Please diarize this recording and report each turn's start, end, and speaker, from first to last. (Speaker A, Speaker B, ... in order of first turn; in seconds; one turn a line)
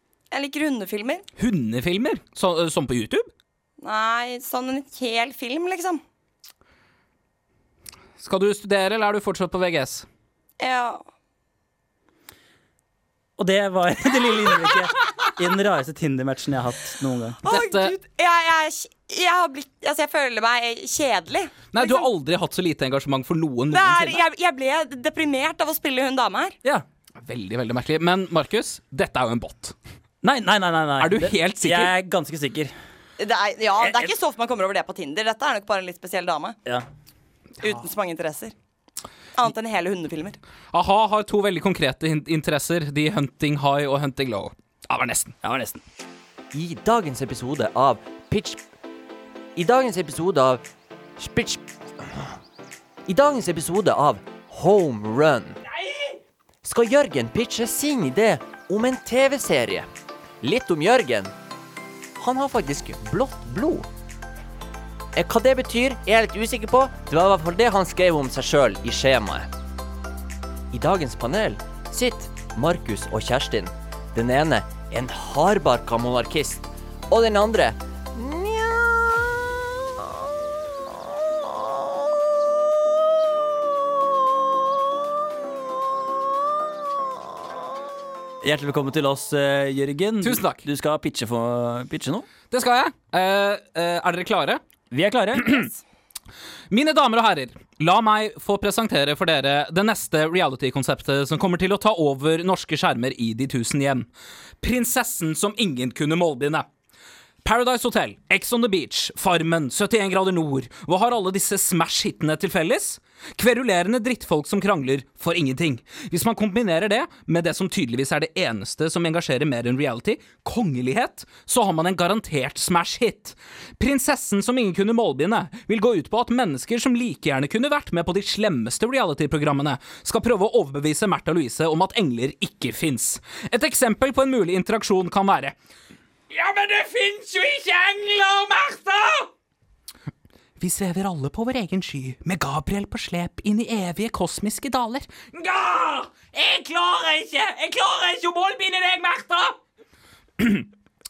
Speaker A: 0.3-1.2
Speaker B: 1.4-3.3
Speaker A: 3.8-6.0
Speaker B: 8.2-10.1
Speaker A: 10.6-11.0
Speaker C: 13.4-17.4
Speaker A: 17.4-22.1
Speaker B: 17.4-17.9
Speaker B: 21.7-24.2
Speaker A: 23.7-26.6
Speaker B: 27.2-29.7
Speaker C: 30.2-32.7
Speaker B: 31.0-31.9
Speaker A: 33.2-36.6
Speaker C: 33.8-34.1
Speaker A: 37.6-38.5
Speaker A: 39.4-40.4
Speaker B: 40.7-45.4
Speaker C: 45.4-45.8
Speaker D: 46.5-48.6
Speaker D: 49.5-50.6
Speaker D: 51.2-52.3
Speaker D: 53.0-55.6
Speaker D: 56.6-59.9
Speaker D: 60.4-61.3
Speaker D: 62.2-63.9
Speaker D: 65.1-69.5
Speaker D: 70.7-79.1
Speaker C: 88.4-92.3
Speaker B: 90.2-90.6
Speaker B: 92.5-94.6
Speaker C: 94.9-95.7
Speaker B: 96.7-104.1
Speaker B: 104.6-106.7
Speaker B: 107.4-135.5
Speaker B: 136.3-139.3
Speaker B: 140.6-149.6
Speaker B: 150.4-150.7